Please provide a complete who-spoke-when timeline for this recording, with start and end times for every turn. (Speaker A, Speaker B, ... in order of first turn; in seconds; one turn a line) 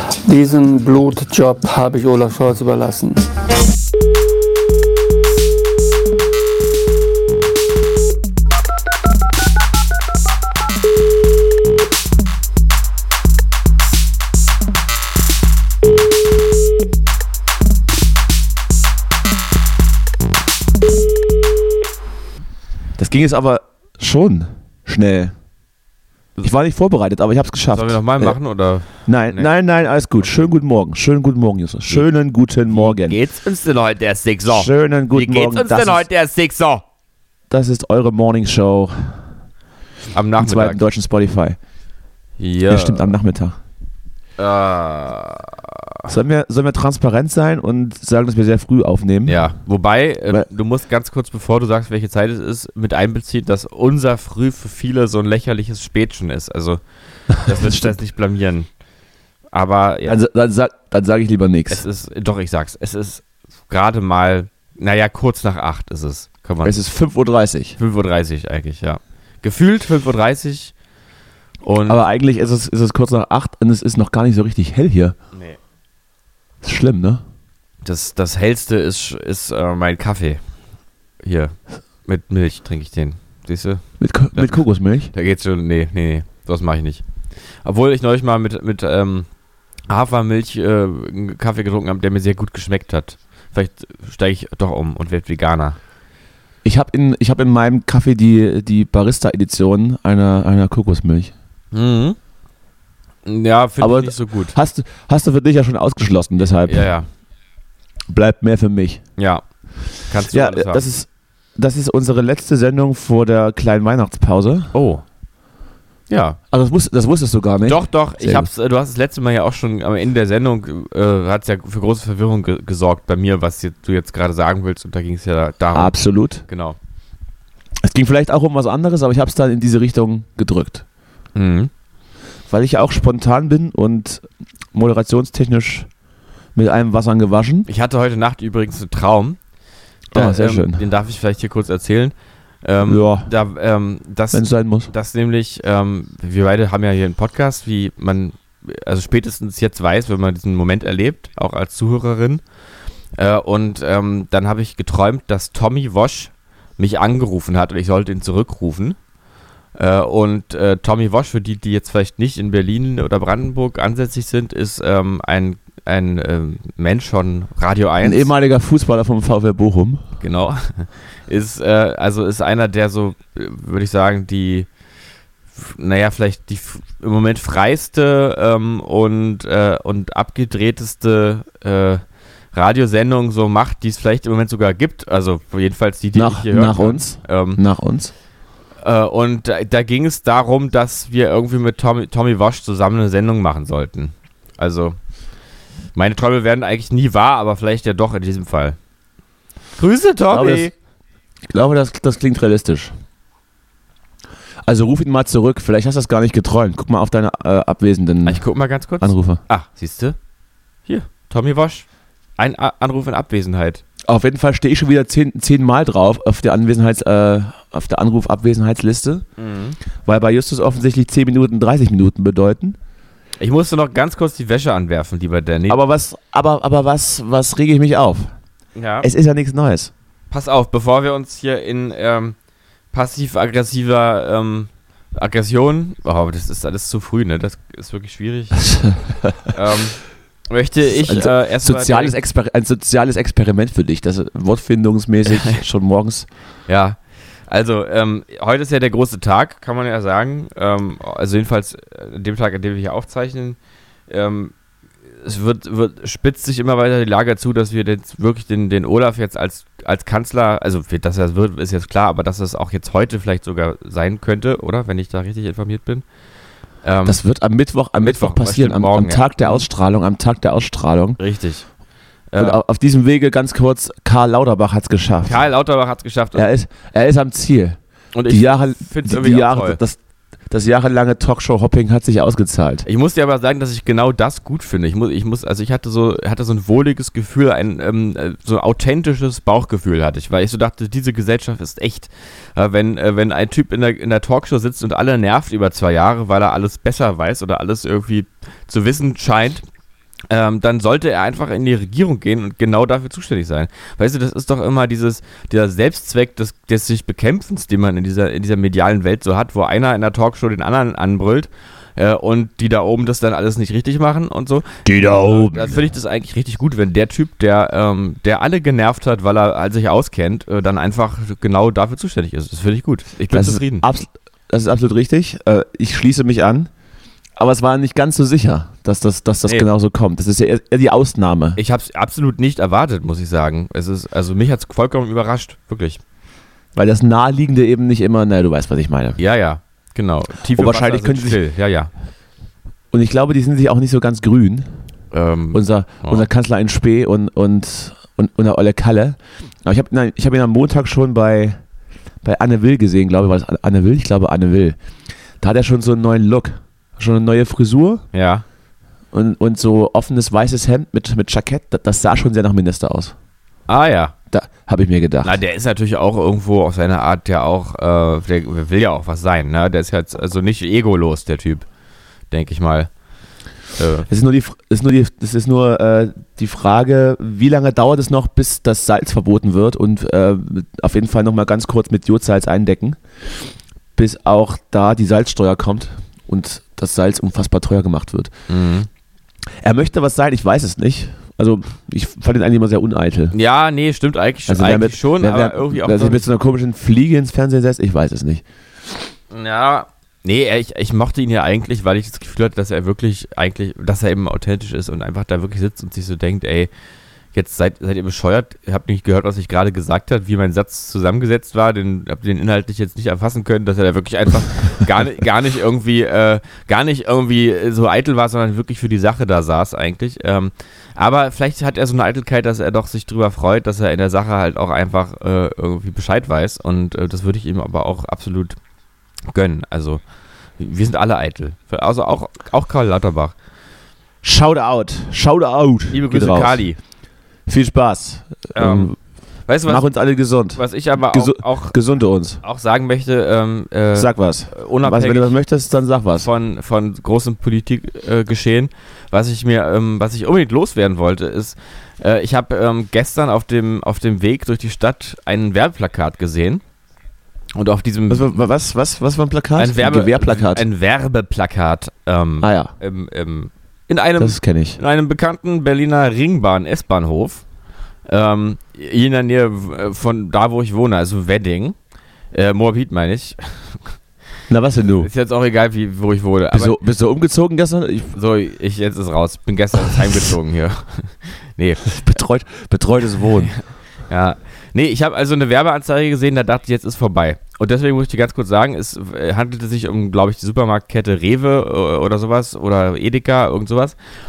Speaker A: 0.2-3.2
Speaker B: 23.0-25.3
Speaker B: 26.4-28.4
Speaker C: 27.7-29.5
Speaker B: 29.1-33.2
Speaker C: 32.7-36.8
Speaker B: 34.5-36.1
Speaker B: 37.5-39.2
Speaker C: 40.1-40.8
Speaker B: 40.4-41.6
Speaker C: 42.4-43.1
Speaker B: 42.7-43.6
Speaker C: 44.4-45.8
Speaker B: 46.1-49.4
Speaker C: 49.3-56.8
Speaker C: 57.3-58.7
Speaker B: 57.6-57.9
Speaker C: 59.5-60.2
Speaker B: 60.1-61.9
Speaker C: 61.7-66.8
Speaker B: 66.6-67.8
Speaker C: 67.8-70.7
Speaker C: 71.6-72.0
Speaker B: 71.9-75.2
Speaker B: 76.6-77.2
Speaker C: 77.8-80.4
Speaker C: 81.2-81.5
Speaker C: 82.1-83.8
Speaker B: 84.0-85.1
Speaker C: 84.3-87.0
Speaker C: 87.6-89.3
Speaker C: 89.9-95.8
Speaker B: 96.6-101.3
Speaker C: 101.7-102.2
Speaker C: 103.2-104.6
Speaker B: 103.8-106.9
Speaker C: 106.7-107.1
Speaker B: 108.1-109.0
Speaker C: 109.2-109.4
Speaker C: 110.1-110.9
Speaker B: 110.3-114.8
Speaker C: 114.7-115.0
Speaker C: 116.1-116.4
Speaker B: 116.5-118.5
Speaker C: 117.7-126.0
Speaker B: 125.7-126.4
Speaker C: 126.5-126.8
Speaker B: 127.8-130.8
Speaker C: 131.3-131.7
Speaker B: 132.5-135.9
Speaker B: 136.6-137.7
Speaker C: 137.7-139.4
Speaker B: 140.1-140.8
Speaker C: 140.1-152.4
Speaker B: 142.8-143.3
Speaker B: 144.3-144.9
Speaker C: 153.2-159.0
Speaker C: 159.8-168.3
Speaker B: 168.0-170.1
Speaker C: 170.2-174.7
Speaker C: 175.6-187.6
Speaker B: 186.1-188.1
Speaker C: 188.8-195.0
Speaker C: 195.9-198.8
Speaker C: 199.8-200.7
Speaker B: 200.3-200.7
Speaker B: 201.5-202.9
Speaker B: 204.7-208.4
Speaker C: 208.3-210.2
Speaker B: 209.0-209.4
Speaker C: 210.9-211.9
Speaker C: 212.4-213.8
Speaker B: 214.1-219.2
Speaker C: 219.4-219.8
Speaker B: 220.1-222.8
Speaker C: 223.4-225.8
Speaker B: 225.7-228.3
Speaker C: 228.8-229.1
Speaker B: 229.0-229.9
Speaker C: 230.3-232.4
Speaker C: 232.9-238.7
Speaker B: 238.7-239.0
Speaker C: 239.5-242.2
Speaker B: 240.8-246.3
Speaker C: 245.3-245.6
Speaker C: 246.7-253.6
Speaker C: 254.1-254.5
Speaker C: 255.2-266.0
Speaker C: 266.8-267.2
Speaker B: 267.1-271.2
Speaker C: 268.0-269.6
Speaker C: 271.2-271.6
Speaker C: 272.3-272.6
Speaker B: 272.4-275.4
Speaker C: 275.2-276.5
Speaker B: 276.3-280.0
Speaker C: 278.1-279.8
Speaker B: 280.5-282.9
Speaker C: 282.9-299.6
Speaker C: 300.3-323.9
Speaker B: 314.9-315.8
Speaker B: 323.3-326.7
Speaker B: 327.4-331.6
Speaker C: 331.6-336.0
Speaker B: 336.8-339.2
Speaker C: 339.2-341.9
Speaker B: 340.5-341.4
Speaker B: 342.9-344.7
Speaker C: 345.1-346.3
Speaker B: 345.5-351.6
Speaker B: 352.2-354.8
Speaker B: 355.4-358.1
Speaker C: 358.1-358.4
Speaker B: 359.1-363.1
Speaker C: 363.7-364.1
Speaker B: 364.3-365.4
Speaker C: 365.2-371.6
Speaker C: 372.3-372.9
Speaker C: 373.8-374.1
Speaker B: 374.1-383.4
Speaker B: 384.0-388.3
Speaker C: 388.5-388.9
Speaker B: 389.6-393.4
Speaker C: 393.3-396.3
Speaker B: 394.5-398.4
Speaker C: 399.3-406.7
Speaker C: 407.3-428.6
Speaker C: 429.3-430.0
Speaker C: 430.6-433.3
Speaker B: 434.2-436.7
Speaker C: 435.9-436.8
Speaker B: 437.5-439.0
Speaker C: 438.6-438.9
Speaker C: 439.5-439.9
Speaker B: 439.6-442.4
Speaker C: 440.6-441.8
Speaker C: 442.4-445.4
Speaker B: 443.9-446.3
Speaker C: 446.2-456.6
Speaker C: 457.6-458.3
Speaker B: 458.1-460.7
Speaker C: 459.6-467.4
Speaker B: 462.4-462.7
Speaker B: 464.2-464.8
Speaker C: 468.1-471.8
Speaker C: 472.3-473.8
Speaker B: 474.5-475.1
Speaker C: 475.0-476.8
Speaker B: 476.5-478.1
Speaker C: 478.1-482.0
Speaker B: 481.9-483.5
Speaker C: 483.5-494.0